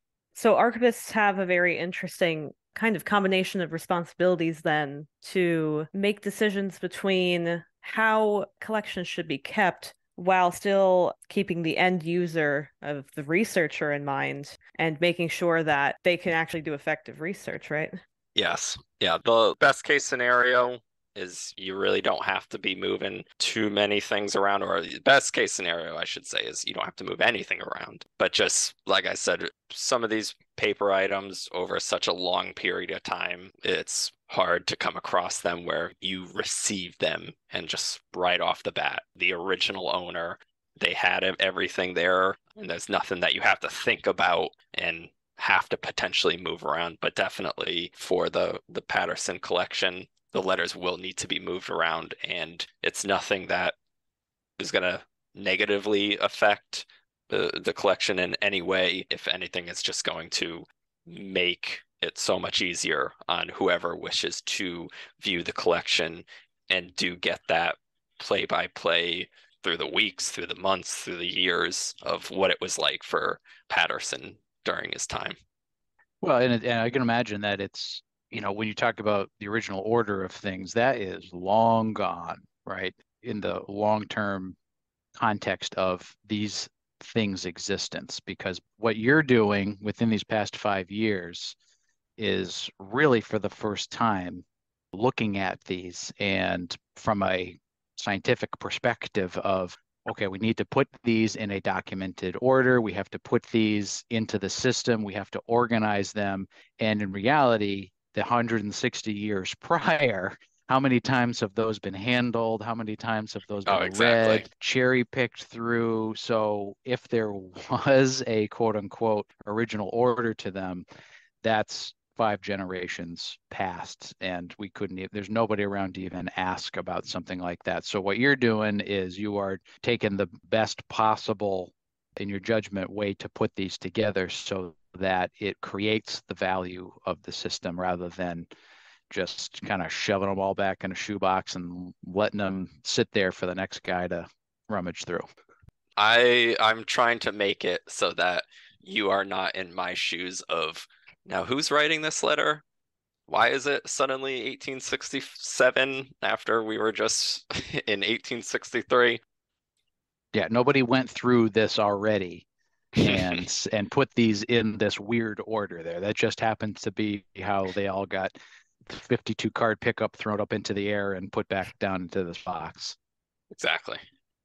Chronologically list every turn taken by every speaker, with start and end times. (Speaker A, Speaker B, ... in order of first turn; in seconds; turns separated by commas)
Speaker A: 0.3-18.0, Speaker B: 18.3-53.7, Speaker B: 54.6-75.3, Speaker C: 76.2-84.5, Speaker C: 85.2-91.5, Speaker C: 92.2-120.8, Speaker B: 113.7-114.5, Speaker C: 121.4-138.5, Speaker C: 139.1-145.3, Speaker B: 146.0-152.6, Speaker B: 153.3-159.2, Speaker C: 160.3-172.9, Speaker B: 173.5-174.0